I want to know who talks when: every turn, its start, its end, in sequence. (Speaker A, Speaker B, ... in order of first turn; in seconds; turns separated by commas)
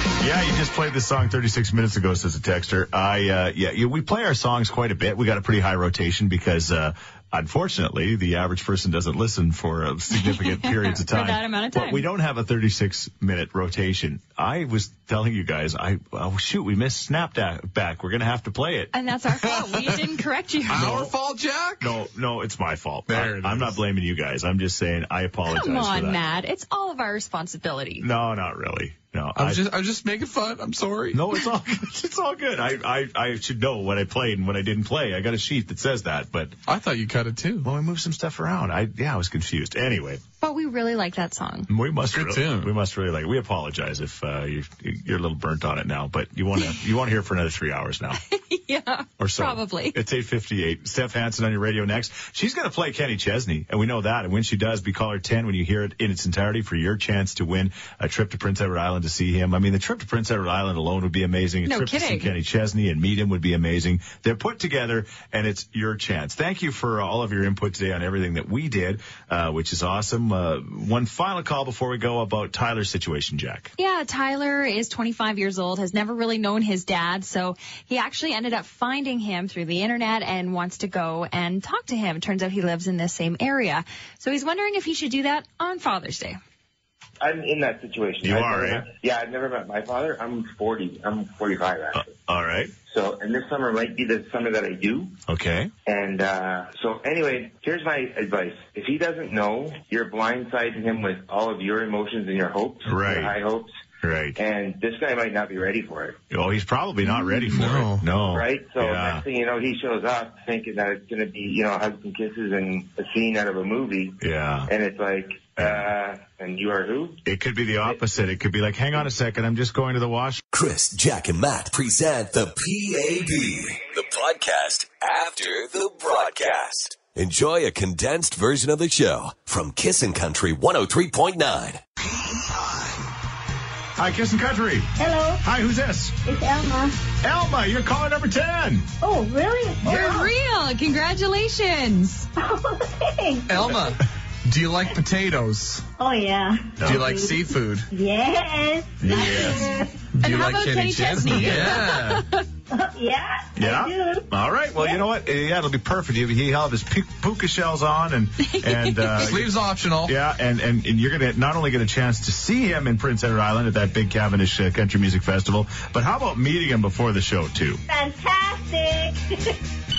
Speaker A: 0.2-18.9, Speaker B: 10.1-12.1, Speaker B: 18.9-21.0, Speaker C: 19.4-20.0, Speaker C: 20.7-22.0, Speaker A: 20.7-21.1, Speaker A: 21.8-26.2, Speaker C: 23.1-23.8, Speaker B: 25.5-28.1, Speaker A: 28.0-29.6, Speaker C: 29.4-31.2, Speaker A: 31.1-36.5, Speaker C: 36.7-37.7, Speaker A: 37.6-40.2, Speaker B: 40.4-41.7, Speaker A: 41.7-48.2, Speaker C: 42.1-42.7, Speaker B: 48.2-50.0, Speaker A: 49.2-73.7, Speaker B: 61.6-62.3, Speaker B: 73.8-86.4, Speaker D: 87.2-92.1, Speaker A: 88.2-88.9, Speaker A: 91.9-92.7, Speaker D: 92.9-95.2, Speaker A: 95.3-95.7, Speaker D: 95.9-103.7, Speaker A: 102.8-103.4, Speaker A: 104.0-104.4, Speaker D: 104.4-106.2, Speaker A: 106.3-109.2, Speaker C: 107.5-108.0, Speaker D: 108.3-117.2, Speaker A: 114.2-114.7, Speaker A: 115.6-115.9, Speaker A: 117.2-120.4, Speaker E: 120.5-133.0, Speaker A: 134.0-136.2, Speaker F: 135.0-135.4, Speaker F: 136.2-136.9, Speaker A: 137.2-138.9, Speaker F: 139.0-140.3, Speaker B: 139.8-142.3, Speaker F: 142.4-143.9, Speaker C: 143.5-145.9, Speaker F: 146.0-149.9, Speaker A: 146.8-147.2, Speaker C: 146.8-147.9, Speaker A: 149.0-149.7, Speaker C: 150.1-152.2, Speaker B: 150.2-152.4, Speaker F: 152.7-155.0, Speaker A: 153.5-167.8, Speaker B: 158.4-159.2, Speaker C: 159.2-160.1, Speaker F: 167.9-169.5